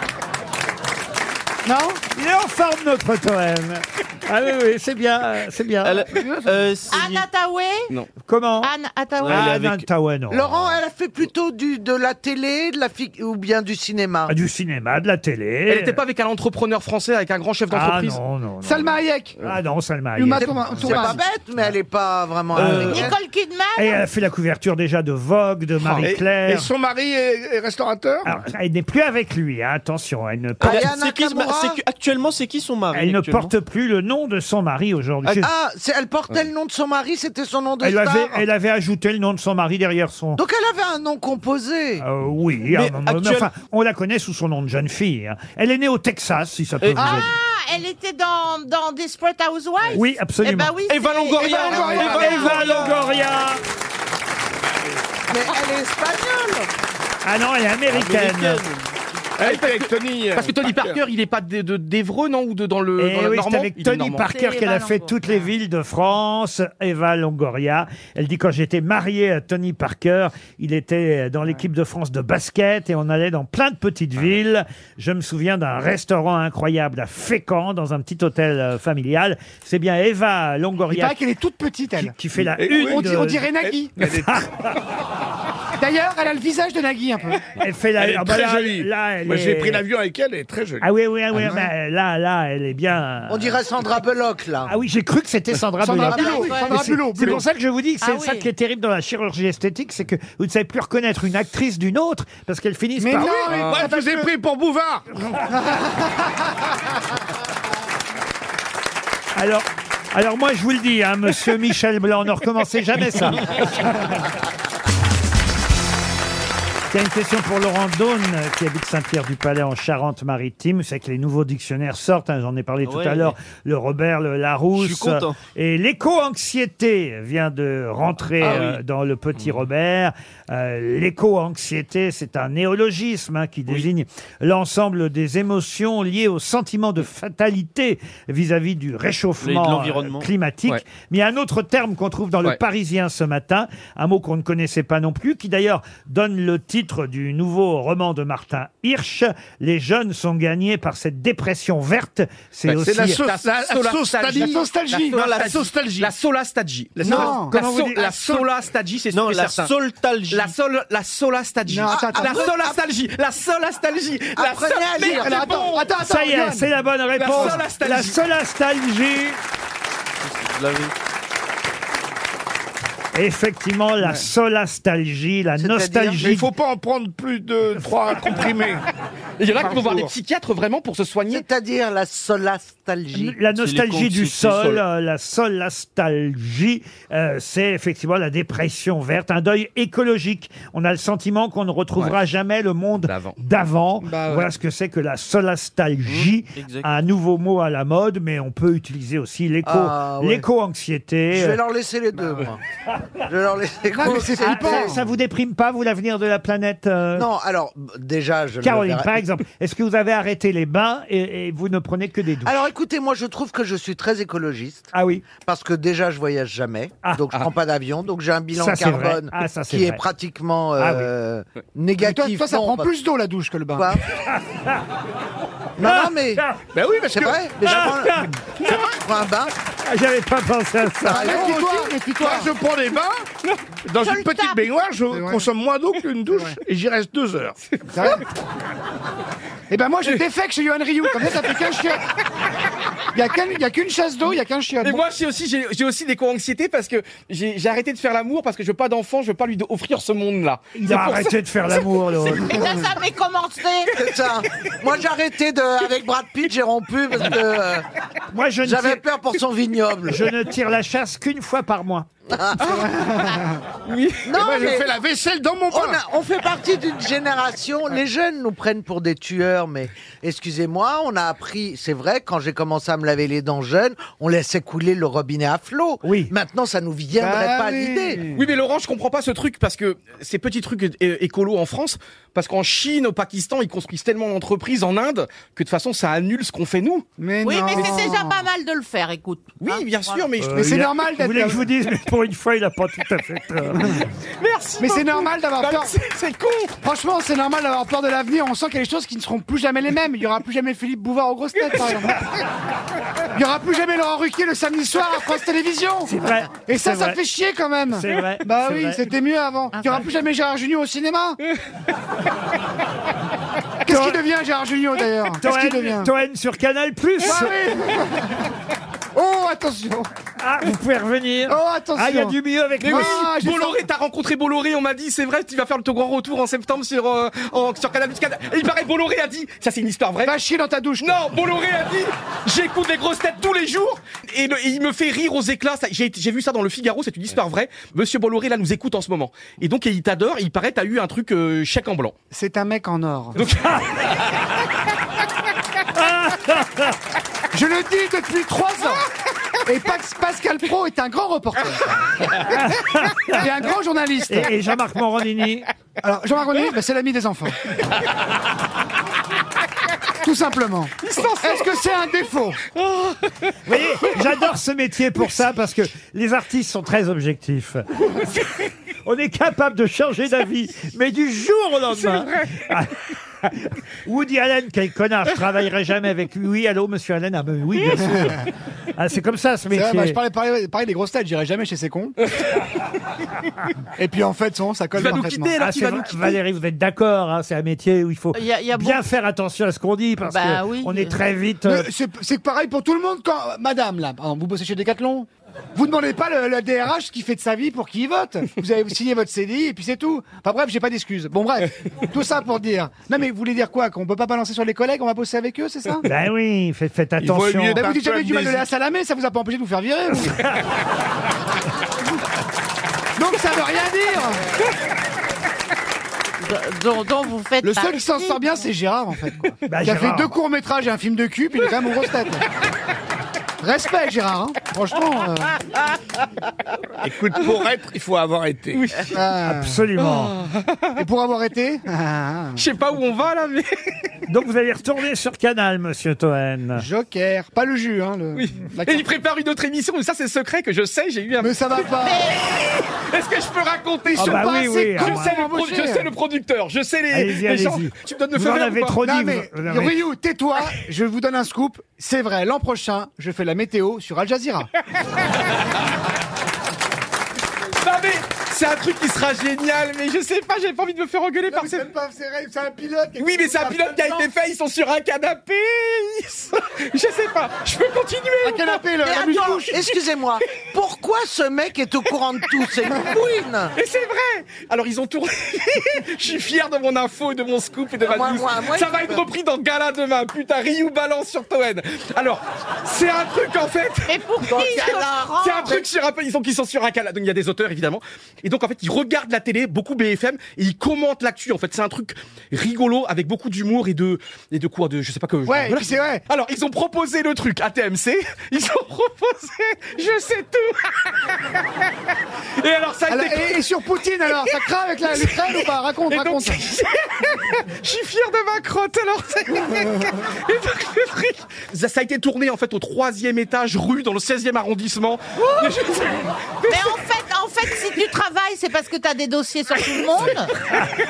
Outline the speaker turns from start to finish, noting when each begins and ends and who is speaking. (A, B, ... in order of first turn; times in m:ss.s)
0:01.6-0:02.0 A
0:02.1-0:06.1 B
0:05.8-0:07.3 C
0:06.1-0:06.6 A
0:06.9-0:07.9 D
0:08.2-0:08.7 B
0:08.6-0:09.5 D
0:09.2-0:09.8 C
0:09.2-0:10.8 B
0:10.3-0:14.3 E
0:14.3-0:16.0 B
0:15.7-0:18.2 F
0:17.7-0:21.0 B
0:18.6-0:19.4 A
0:20.1-0:21.2 A
0:20.4-0:23.1 E
0:22.5-0:23.0 C
0:22.6-0:23.0 B
0:22.9-0:24.0 D
0:23.8-0:26.7 B
0:26.0-0:28.3 G
0:28.2-0:30.9 B
0:30.6-0:33.5 C
0:30.6-0:31.8 E
0:32.9-0:35.5 B
0:35.4-0:38.4 E
0:37.8-0:40.4 B
0:40.4-0:42.0 E
0:42.0-0:47.3 B
0:42.7-0:43.5 C
0:46.8-0:47.2 C
0:47.0-0:53.0 D
0:49.9-0:50.7 B
0:50.9-0:51.7 C
0:50.9-0:52.7 F
0:51.5-0:52.4 E
0:51.9-0:53.6 B
0:55.3-0:56.7 E
0:57.2-0:58.6 B
0:57.9-0:58.9 C
0:59.4-1:01.0 G
0:59.4-1:04.3 F
1:03.0-1:21.2 B
1:04.2-1:05.5 D
1:20.9-1:22.1 A
1:22.0-1:24.7 B
1:22.5-1:23.1 G
1:22.7-1:23.9 A
1:23.6-1:24.5 G
1:25.8-1:27.4 A
1:27.6-1:29.8 B
1:28.0-1:30.9 G
1:30.8-1:33.6 B
1:31.3-1:31.7 A
1:33.3-1:34.7 E
1:34.6-1:43.7 B
1:35.8-1:37.4 A
1:36.1-1:36.9 D
1:38.0-1:38.5 D
1:43.0-1:44.3 A
1:43.5-1:45.0 G
1:45.4-1:46.3 A
1:49.4-1:53.8 B
1:56.9-2:33.2 B
2:02.8-2:03.3 C
2:04.7-2:05.4 C
2:08.4-2:08.7 F
2:19.4-2:20.3 C
2:32.7-2:34.6 G
2:33.2-2:39.7 F
2:34.3-2:35.2 A
2:35.2-2:36.1 G
2:37.0-2:38.2 G
2:37.0-2:37.6 A
2:37.5-2:38.2 B
2:39.1-2:40.5 C
2:40.3-2:45.9 F
2:41.6-2:42.5 A
2:41.9-2:42.8 E
2:44.4-2:45.6 E
2:45.0-2:46.7 A
2:46.0-2:49.4 B
2:47.2-2:48.2 F
2:50.2-2:50.9 C
2:53.1-2:56.5 B
2:55.6-2:56.3 E
2:56.2-2:58.8 G
2:59.4-3:01.4 F
2:59.6-3:00.1 G
3:01.3-3:03.4 E
3:03.1-3:21.6 B
3:03.5-3:04.8 C
3:13.0-3:13.4 F
3:14.0-3:14.5 A
3:16.1-3:16.9 C
3:19.6-3:20.4 E
3:21.3-3:22.6 E
3:23.2-3:25.0 E
3:23.9-3:25.0 A
3:24.4-3:27.3 B
3:27.2-3:29.2 E
3:28.6-3:32.6 B
3:32.4-3:42.9 E
3:34.9-3:35.2 B
3:38.6-3:40.0 B
3:40.8-3:41.1 B
3:42.0-3:43.9 A
3:43.8-3:44.0 E
3:44.3-3:44.8 B
3:45.8-3:46.4 E
3:45.8-3:46.6 B
3:46.7-3:47.5 G
3:47.1-3:49.5 E
3:47.6-3:48.3 B
3:49.8-3:51.4 B
3:51.0-3:52.5 A
3:51.1-3:51.7 E
3:51.2-3:53.3 G
3:53.8-3:57.6 G
3:54.0-3:54.6 D
3:55.1-3:55.4 A
3:56.3-3:56.6 A
3:57.9-3:58.2 A
3:59.7-4:02.0 A
4:03.1-4:05.0 A
4:04.8-4:11.3 F
4:10.7-4:12.6 B
4:12.3-4:13.9 D
4:13.9-4:17.8 E
4:18.3-4:19.0 B
4:18.6-4:20.2 E
4:20.1-4:22.1 B
4:22.3-4:22.9 E
4:22.6-4:23.6 A
4:23.8-4:24.3 F
4:24.2-4:25.0 E
4:24.3-4:26.0 G
4:25.7-4:38.2 E
4:36.0-4:36.3 B
4:37.2-4:38.4 A
4:38.3-4:47.1 F
4:47.2-4:48.4 A
4:47.4-4:50.3 D
4:49.6-4:50.8 F
4:50.4-4:54.0 B
4:50.5-4:51.6 A
4:53.7-4:54.0 A
4:54.4-4:56.8 F
4:54.8-4:56.0 A
4:56.8-5:02.3 A
5:03.3-5:11.4 A
5:06.0-5:07.2 B
5:07.9-5:09.0 B
5:09.7-5:10.1 D
5:13.8-5:16.1 A
5:13.9-5:14.2 B
5:15.4-5:17.5 B
5:17.2-5:18.5 A
5:19.1-5:20.1 A
5:20.4-5:23.2 B
5:21.5-5:23.8 A
5:22.8-5:30.3 F
5:30.2-5:31.2 A
5:31.0-5:42.1 F
5:42.3-5:43.4 A
5:43.4-5:43.7 F
5:43.5-5:43.8 B
5:45.9-5:46.9 B
5:47.5-5:49.1 A
5:49.6-5:52.4 A
5:52.4-5:53.4 B
5:53.1-5:54.5 A
5:54.3-5:55.7 B
5:56.0-5:57.6 A
6:00.2-6:02.6 A
6:01.0-6:01.8 F
6:02.7-6:03.5 F
6:03.6-6:07.9 B
6:08.2-6:08.4 F
6:09.0-6:12.9 B
6:11.9-6:12.5 F
6:14.0-6:20.2 B
6:18.0-6:18.4 A
6:19.7-6:22.2 A
6:24.0-6:25.5 A
6:24.9-6:26.4 F
6:25.6-6:31.9 B
6:28.3-6:29.0 D
6:30.2-6:31.2 D
6:31.6-6:46.1 A
6:46.0-6:47.8 B
6:47.2-6:48.6 G
6:47.8-6:50.4 A
6:53.2-6:54.4 A
6:56.4-6:58.5 D
6:57.6-7:02.4 A
6:59.6-7:00.3 B
7:03.6-7:05.5 A
7:07.0-7:09.0 G
7:08.7-7:09.2 F
7:09.1-7:09.8 A
7:09.5-7:10.3 B
7:10.0-7:11.0 F
7:11.0-7:12.6 A
7:12.6-7:13.7 F
7:14.3-7:16.8 B
7:16.7-7:19.1 A
7:18.3-7:21.6 F
7:21.4-7:22.3 A
7:22.0-7:22.4 D
7:22.4-7:29.0 F
7:24.1-7:26.1 A
7:24.2-7:25.4 B
7:27.1-7:30.0 B
7:29.0-7:34.7 A
7:37.8-7:41.8 F
7:41.5-7:44.3 A
7:43.2-7:48.8 F
7:48.4-7:49.9 A
7:49.0-7:53.7 E
7:53.8-8:04.8 F
7:58.0-7:59.3 E
8:04.1-8:05.8 D
8:04.4-8:05.8 E
8:05.4-8:21.9 F
8:15.4-8:16.2 A
8:22.6-8:23.6 F
8:23.1-8:26.6 A
8:25.1-8:37.0 F
8:36.7-8:40.5 D